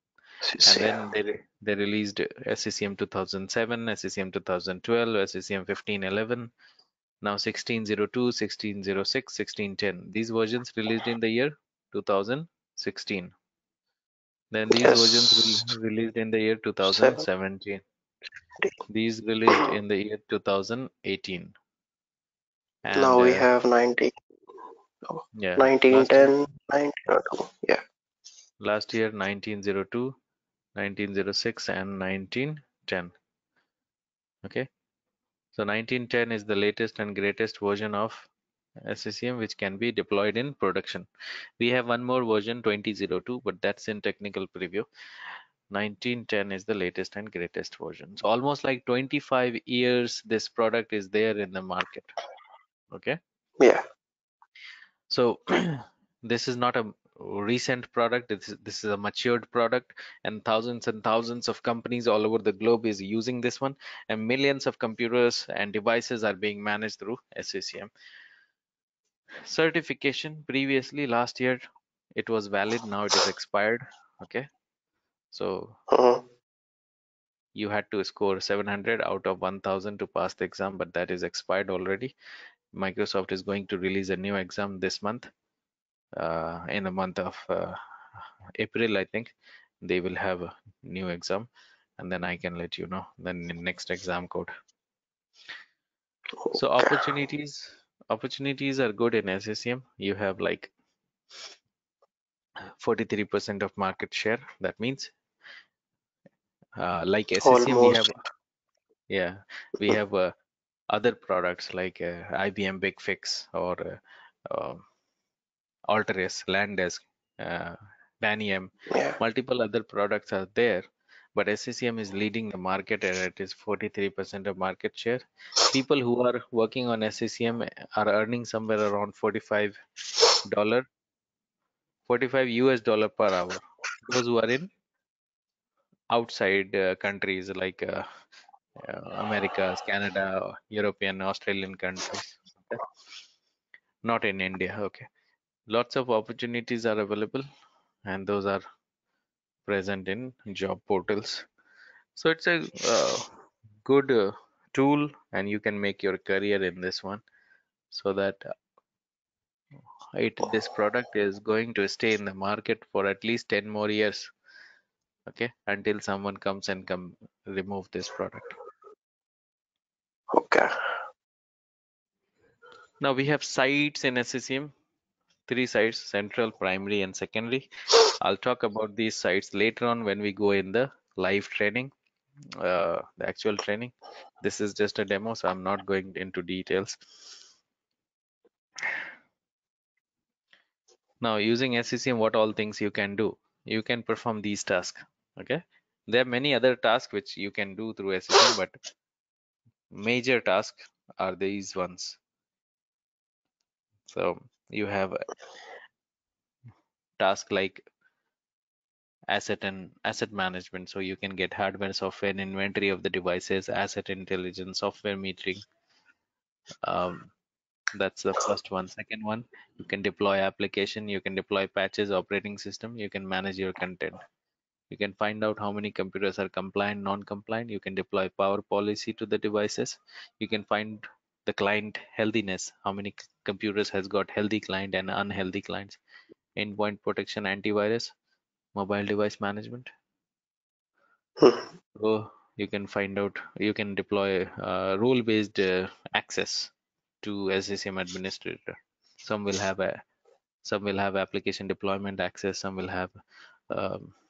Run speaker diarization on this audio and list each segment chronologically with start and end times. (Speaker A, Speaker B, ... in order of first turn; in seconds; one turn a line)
Speaker A: 0.4-1.0
Speaker B: 0.6-6.5
Speaker B: 7.2-13.3
Speaker B: 14.5-17.8
Speaker A: 14.8-15.7
Speaker A: 16.8-17.2
Speaker B: 18.9-21.5
Speaker B: 22.8-23.5
Speaker A: 22.9-24.1
Speaker A: 25.1-27.8
Speaker B: 25.3-26.3
Speaker B: 28.6-30.1
Speaker B: 30.8-33.1
Speaker B: 35.5-38.3
Speaker B: 38.8-41.1
Speaker B: 41.6-44.9
Speaker B: 45.7-52.1
Speaker B: 52.9-53.2
Speaker B: 55.1-67.9
Speaker B: 69.5-71.6
Speaker B: 72.2-74.5
Speaker B: 75.3-75.8
Speaker A: 75.9-76.2
Speaker B: 77.5-82.1
Speaker B: 82.7-85.3
Speaker B: 86.2-94.5
Speaker A: 96.4-97.0
Speaker B: 96.5-100.7
Speaker B: 102.8-105.1
Speaker B: 106.8-108.1
Speaker A: 107.4-108.2
Speaker B: 109.1-110.3
Speaker B: 110.9-114.0
Speaker B: 114.5-114.8
Speaker B: 115.9-129.8
Speaker B: 130.4-130.8
Speaker B: 132.1-134.7
Speaker B: 136.1-138.0
Speaker B: 138.8-142.8
Speaker B: 144.0-145.0
Speaker B: 145.7-147.4
Speaker B: 148.1-148.6
Speaker B: 149.7-151.4
Speaker B: 152.2-153.3
Speaker B: 153.8-157.2
Speaker B: 157.9-158.4
Speaker B: 160.1-164.3
Speaker B: 165.3-168.5
Speaker A: 170.3-170.7
Speaker B: 173.0-174.7
Speaker B: 175.5-181.9
Speaker B: 182.6-187.0
Speaker B: 191.2-198.8
Speaker B: 199.9-202.2
Speaker B: 204.1-205.3
Speaker B: 207.2-207.8
Speaker B: 209.3-215.6
Speaker B: 216.8-217.3
Speaker B: 217.9-224.2
Speaker B: 224.9-236.0
Speaker B: 236.6-238.1
Speaker B: 238.8-239.9
Speaker A: 241.4-241.7
Speaker B: 242.0-246.7
Speaker B: 247.2-250.0
Speaker B: 250.6-253.2
Speaker B: 253.7-254.1